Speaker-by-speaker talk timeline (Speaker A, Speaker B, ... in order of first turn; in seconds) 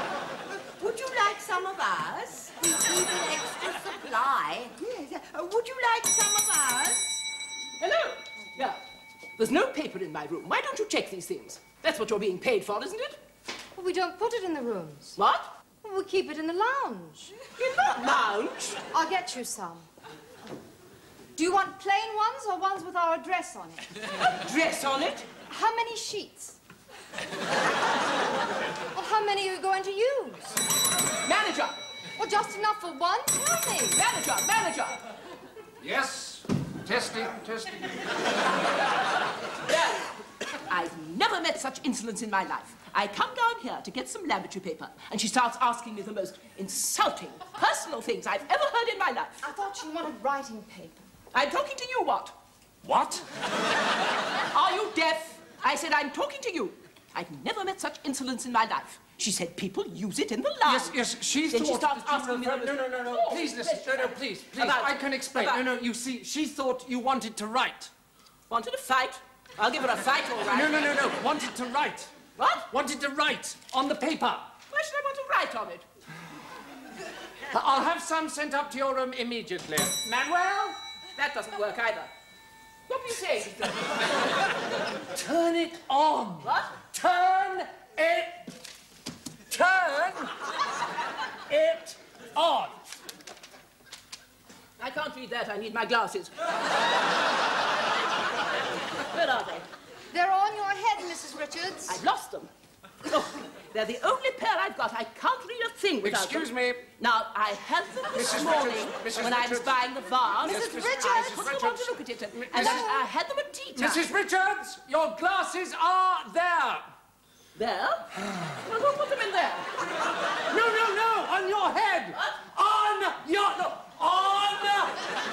Speaker A: 0.8-7.0
Speaker B: 2.5-3.4, 6.1-6.8, 13.8-15.2, 15.8-17.4, 18.9-19.9, 21.3-23.8, 25.5-26.6, 28.9-30.6, 32.1-34.0, 49.4-51.1, 100.1-102.0, 110.4-111.4, 112.6-113.0
Speaker C: 7.8-8.8, 9.4-13.2, 15.2-15.5, 17.6-18.8, 24.2-25.3, 31.2-31.8, 33.9-35.0, 39.7-49.4, 51.3-52.4, 54.5-65.6, 68.5-71.0, 72.4-72.7, 74.7-75.8, 81.2-82.1, 82.9-84.0, 86.4-86.8, 94.8-96.3, 99.1-99.7, 101.9-102.5, 103.1-114.1, 117.5-118.1, 118.6-119.7
Speaker D: 35.8-38.1, 52.8-53.3, 60.7-67.9, 70.4-72.1, 72.7-74.5, 77.5-80.8, 85.1-88.5, 89.5-90.4, 91.5-92.8, 106.0-106.9, 108.1-109.8, 110.4-113.0, 113.8-116.9, 118.1-118.6, 120.5-125.0